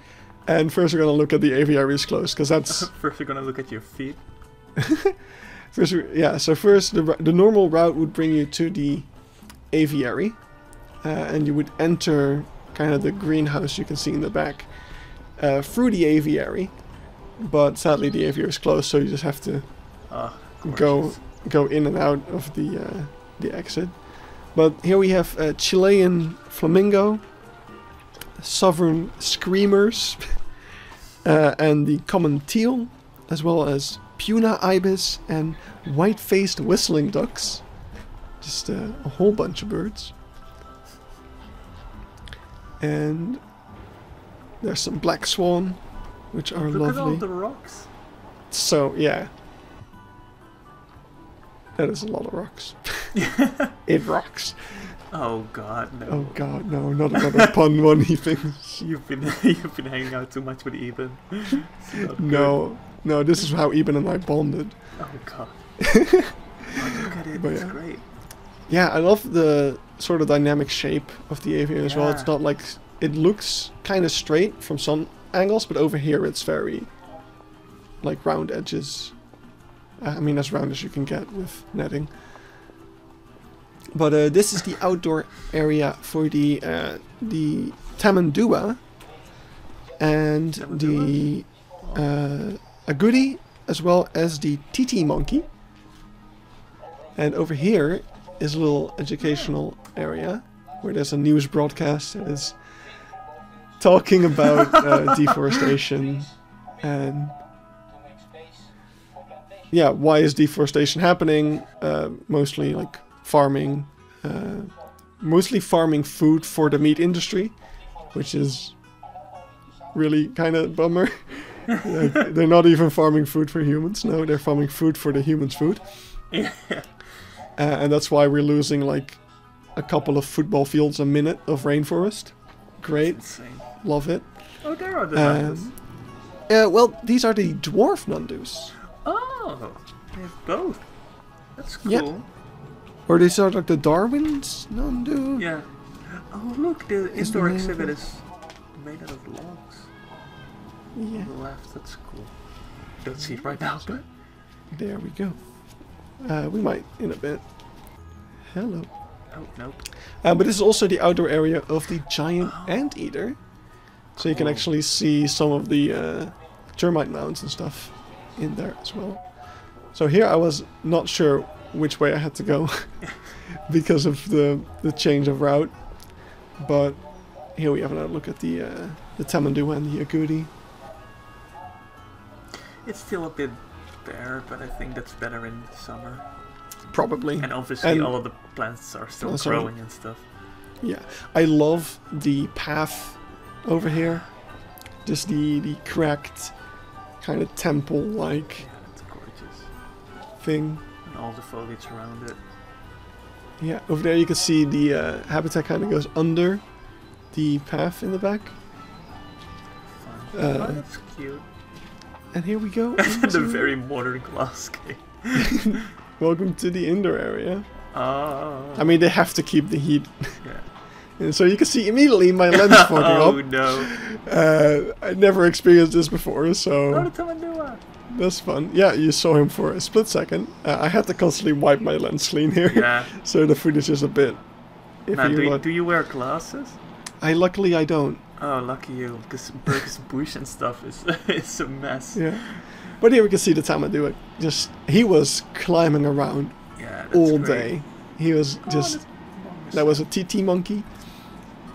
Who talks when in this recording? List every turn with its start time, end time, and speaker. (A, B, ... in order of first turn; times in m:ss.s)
0:00.5-0:02.9 A
0:02.7-0:04.2 B
0:04.8-0:05.2 A
0:05.7-0:09.1 A
0:09.7-0:10.4 A
0:11.0-0:14.7 A
0:15.4-0:16.8 A
0:17.4-0:19.7 A
0:20.1-0:21.2 B
0:20.6-0:24.0 A
0:24.5-0:27.2 A
0:28.4-0:30.2 A
0:31.2-0:37.6 A
0:38.4-0:40.1 A
0:42.8-0:43.4 A
0:44.6-0:45.8 A
0:46.3-0:47.2 A
0:46.6-0:47.9 B
0:48.5-0:49.3 A
0:51.8-0:53.1 A
0:53.1-0:53.8 B
0:53.9-0:54.9 A
0:55.1-0:56.4 B
0:56.1-0:58.8 A
0:57.2-0:57.5 B
0:58.8-1:02.6 B
1:02.0-1:04.8 A
1:05.0-1:05.6 B
1:05.8-1:07.8 A
1:06.7-1:08.0 B
1:08.7-1:16.9 A
1:11.8-1:12.4 B
1:18.0-1:19.2 A
1:20.0-1:22.1 A
1:23.9-1:28.8 A
1:30.0-1:35.5 A
1:30.6-1:31.3 B
1:37.2-1:42.6 A
1:39.2-1:39.5 B
1:43.8-1:47.4 A
1:49.7-1:57.6 A
1:58.1-1:58.8 A
1:59.9-2:05.8 A
2:01.7-2:02.2 B
2:06.3-2:06.9 B
2:07.6-2:09.2 A
2:09.8-2:14.3 A
2:13.0-2:13.7 B
2:14.6-2:15.7 B
2:15.1-2:15.7 A
2:16.5-2:18.8 A
2:19.0-2:20.8 B
2:21.6-2:22.3 B
2:23.1-2:25.5 A
2:25.4-2:29.9 B
2:27.2-2:27.9 A
2:31.0-2:31.3 A
2:31.1-2:32.3 B
2:33.0-2:34.0 B
2:34.7-2:35.4 A
2:36.2-2:37.4 A
2:38.5-2:38.9 A
2:39.3-2:39.9 B
2:40.2-2:43.4 A
2:42.4-2:42.7 B
2:44.2-2:49.2 A
2:44.2-2:44.6 B
2:49.9-2:53.0 A
2:53.7-2:55.8 A
2:56.6-2:57.0 A
2:57.6-3:00.5 A
3:02.8-3:06.2 B
3:06.9-3:08.1 A
3:07.4-3:10.2 B
3:09.2-3:09.7 A
3:10.8-3:14.2 A
3:15.0-3:16.5 A
3:17.2-3:18.6 A
3:18.6-3:19.7 B
3:20.4-3:20.8 A
3:21.0-3:22.4 B
3:23.6-3:26.6 A
3:27.3-3:28.6 A
3:30.0-3:31.4 B
3:30.3-3:30.8 A
3:32.3-3:33.8 A
3:33.0-3:35.9 B
3:35.3-3:37.6 A
3:37.9-3:39.0 B
3:38.8-3:40.4 A
3:41.2-3:47.1 A
3:42.5-3:43.9 B
3:46.9-3:47.8 B
3:48.1-3:54.4 A
3:52.7-3:53.1 B
3:55.1-3:55.6 A
3:55.1-3:56.8 B
3:57.2-3:58.2 A
3:58.4-4:02.6 B
4:02.1-4:02.5 A
4:03.0-4:06.6 A
4:06.8-4:07.7 B
4:07.1-4:09.0 A
4:08.6-4:10.1 B
4:09.7-4:10.9 A